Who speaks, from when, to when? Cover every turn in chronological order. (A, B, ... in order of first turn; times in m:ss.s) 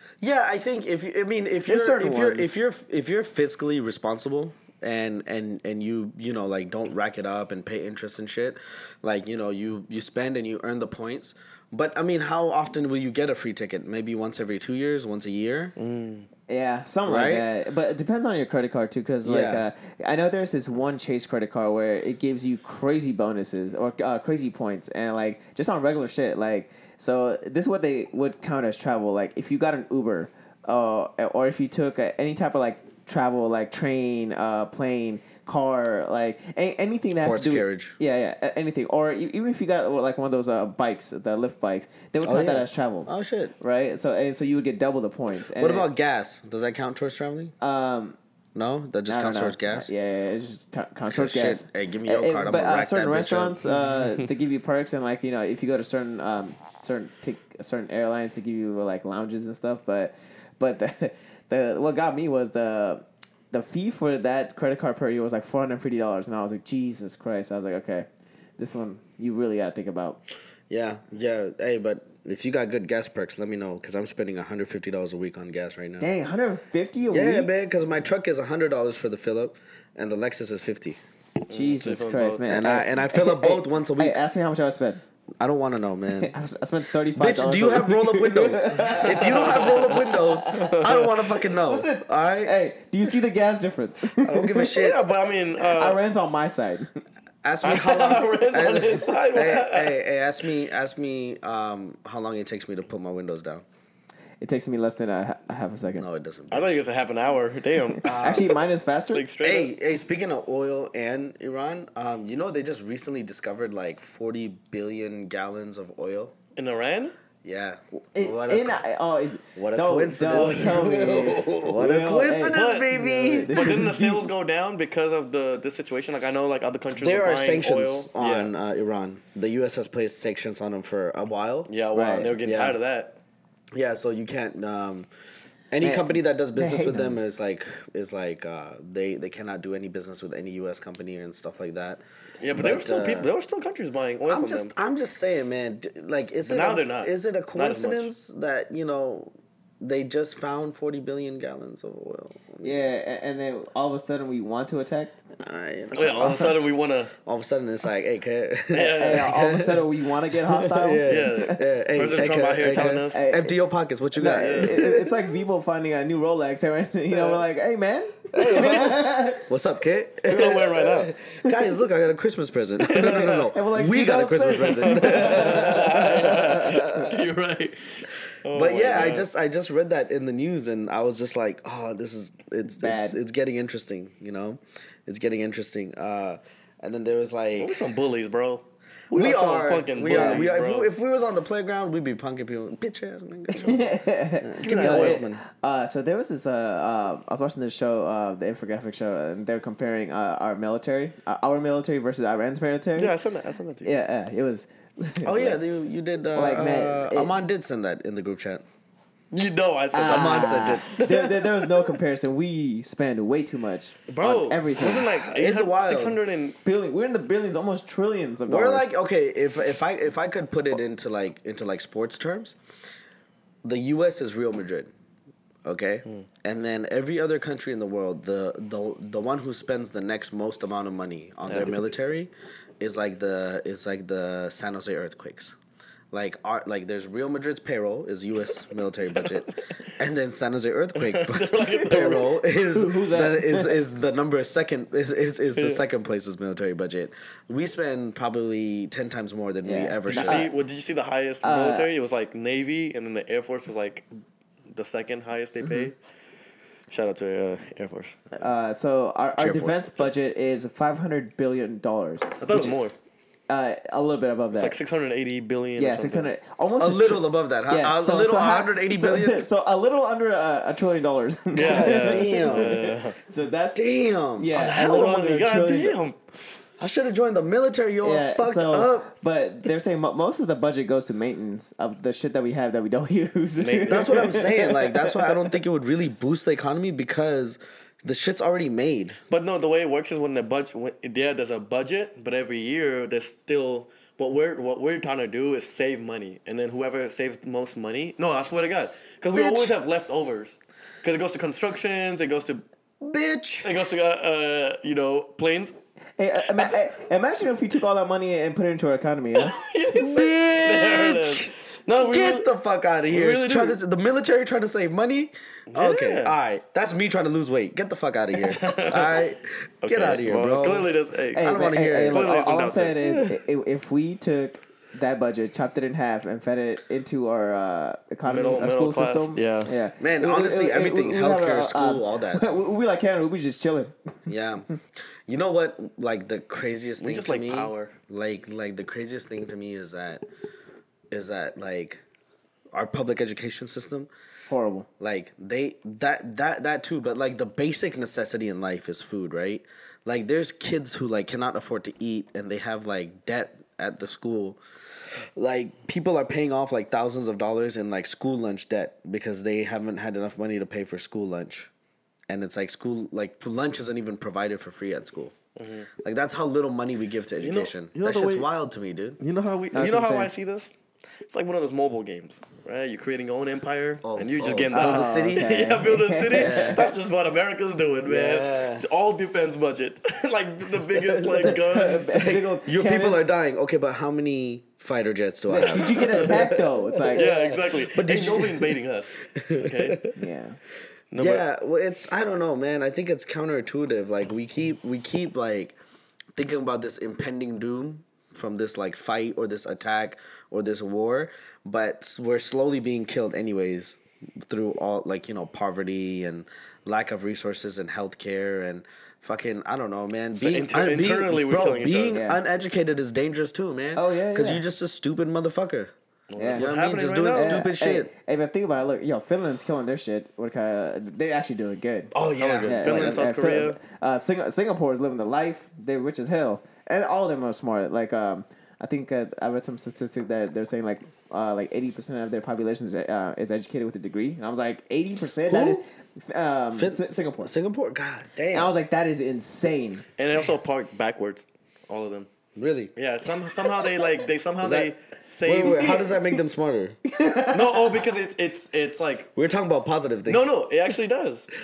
0:00.2-0:15.7 A
0:01.7-0:02.6 B
0:15.8-0:16.3 C
0:16.5-0:45.8 B
0:17.0-0:17.4 A
0:19.2-0:19.6 A
0:37.2-0:38.0 A
0:42.2-0:43.5 A
0:45.6-0:47.5 A
0:47.6-0:48.2 B
0:48.5-0:49.9 A
0:49.1-1:08.1 B
0:51.1-0:53.6 A
0:53.7-0:54.2 C
1:08.6-1:10.2 B
1:10.7-1:16.1 A
1:16.0-1:17.5 B
1:17.1-1:21.0 A
1:21.5-1:22.6 C
1:21.5-1:25.0 B
1:22.5-1:24.2 A
1:25.4-1:26.3 A
1:26.2-1:34.8 B
1:27.2-1:32.5 A
1:28.7-1:31.1 C
1:34.2-1:35.0 A
1:34.6-1:36.0 C
1:35.6-1:37.0 B
1:37.4-1:43.6 A
1:37.6-1:40.0 C
1:44.4-1:46.0 B
1:46.0-1:46.8 A
1:46.5-1:48.6 C
1:48.0-1:48.6 A
1:48.1-1:49.2 B
1:49.1-1:49.7 C
1:49.4-1:56.3 A
1:56.6-1:57.1 C
1:57.4-1:58.8 A
1:58.1-2:04.3 B
1:59.6-2:03.9 A
2:00.3-2:01.6 C
2:02.5-2:02.9 C
2:03.5-2:08.5 C
2:07.0-2:11.7 A
2:11.7-2:13.2 C
2:11.9-2:12.4 B
2:12.4-2:12.8 A
2:13.7-2:15.1 A
2:15.7-2:22.0 A
2:15.8-2:17.3 B
2:22.4-2:24.7 C
2:22.6-2:23.3 A
2:24.2-2:32.8 A
2:26.4-2:28.1 C
2:32.6-2:35.2 B
2:35.4-2:36.5 A
2:35.9-2:37.1 C
2:37.2-2:45.1 A
2:38.7-2:39.3 C
2:38.9-2:41.6 B
2:41.0-2:43.2 C
2:43.1-2:43.6 B
2:44.2-2:49.4 B
2:44.3-2:44.8 C
2:47.1-2:47.4 C
2:48.3-2:49.0 C
2:48.4-2:48.9 A
2:49.5-2:57.1 A
2:50.2-2:51.1 C
2:51.4-2:51.7 B
2:52.8-2:53.5 C
2:53.5-2:57.1 B
2:54.6-2:59.3 C
2:58.5-3:07.8 A
3:02.7-3:03.2 B
3:07.6-3:10.9 C
3:09.1-3:15.4 A
3:10.1-3:10.4 B
3:13.5-3:23.1 B
3:14.6-3:15.2 C
3:23.0-3:23.9 C
3:23.8-3:25.6 B
3:25.2-3:28.6 A
3:26.3-3:27.3 B
3:29.3-3:30.8 C
3:29.9-3:35.1 B
3:30.1-3:31.7 A
3:34.1-3:36.6 C
3:35.0-3:36.2 A
3:36.6-3:38.9 B
3:38.5-3:42.6 A
3:43.6-3:44.9 A
3:45.6-3:55.6 A
3:51.4-3:51.7 C
3:56.1-4:10.4 A
3:59.0-3:59.9 C
4:00.9-4:02.2 C
4:02.6-4:03.8 B
4:05.5-4:05.8 C
4:09.6-4:10.5 B
4:10.1-4:14.0 C
4:11.4-4:11.9 B
4:14.7-4:16.0 C
4:15.6-4:15.9 B
4:16.9-4:18.2 C
4:18.4-4:22.8 B
4:19.2-4:20.1 A
4:22.4-4:22.9 C
4:23.5-4:24.8 B
4:24.5-4:26.3 C
4:25.8-4:36.0 B
4:26.8-4:29.4 A
4:31.5-4:33.2 C
4:31.6-4:32.8 A
4:33.7-4:34.5 A
4:34.5-4:36.6 C
4:36.8-4:39.1 A
4:38.0-4:45.2 B
4:43.6-4:44.5 C
4:43.9-4:49.2 A
4:49.3-5:02.6 C
4:59.3-4:59.7 A
5:03.0-5:03.7 A
5:03.6-5:05.7 C
5:06.2-5:09.6 B
5:09.4-5:12.5 C
5:10.0-5:22.3 A
5:13.1-5:13.8 C
5:15.7-5:16.3 C
5:18.4-5:19.2 C
5:19.8-5:21.5 C
5:21.3-5:34.4 B
5:22.1-5:23.3 C
5:28.2-5:29.7 C
5:30.0-5:32.4 A
5:34.3-5:40.2 A
5:37.0-5:37.9 C
5:41.1-5:42.0 A
5:42.7-5:44.1 A
5:44.5-5:44.9 B
5:45.0-5:54.6 A
5:55.2-6:01.7 A
6:02.3-6:05.3 A
6:05.6-6:05.9 C
6:06.0-6:09.2 A
6:07.4-6:08.5 C
6:09.2-6:10.7 C
6:09.7-6:10.3 B
6:11.2-6:22.4 C
6:14.0-6:15.8 A
6:14.7-6:16.8 B
6:16.3-6:16.9 A
6:18.0-6:18.8 A
6:21.4-6:23.2 B
6:22.1-6:28.8 A
6:25.5-6:27.3 B
6:25.6-6:26.3 C
6:27.1-6:30.0 C
6:29.3-6:30.2 A
6:30.2-6:30.6 B
6:31.1-6:31.4 C
6:31.2-6:35.8 A
6:36.4-6:55.9 A
6:50.4-6:52.2 C
6:52.1-6:52.4 B
6:53.9-6:54.6 B
6:56.3-6:57.6 C
6:56.4-6:56.7 B
6:56.5-6:58.1 A
6:57.3-7:02.1 B
7:02.1-7:03.3 A
7:02.4-7:03.8 C
7:02.7-7:17.5 B
7:15.5-7:15.8 A
7:16.7-7:18.7 A
7:18.5-7:20.0 B
7:20.2-7:22.3 C
7:22.6-7:22.9 A
7:22.9-7:25.9 C
7:24.6-7:24.9 A
7:25.4-7:27.0 A
7:25.6-7:26.4 B
7:27.0-7:28.0 B
7:27.5-7:29.3 C
7:29.4-7:30.6 A
7:30.2-7:31.5 C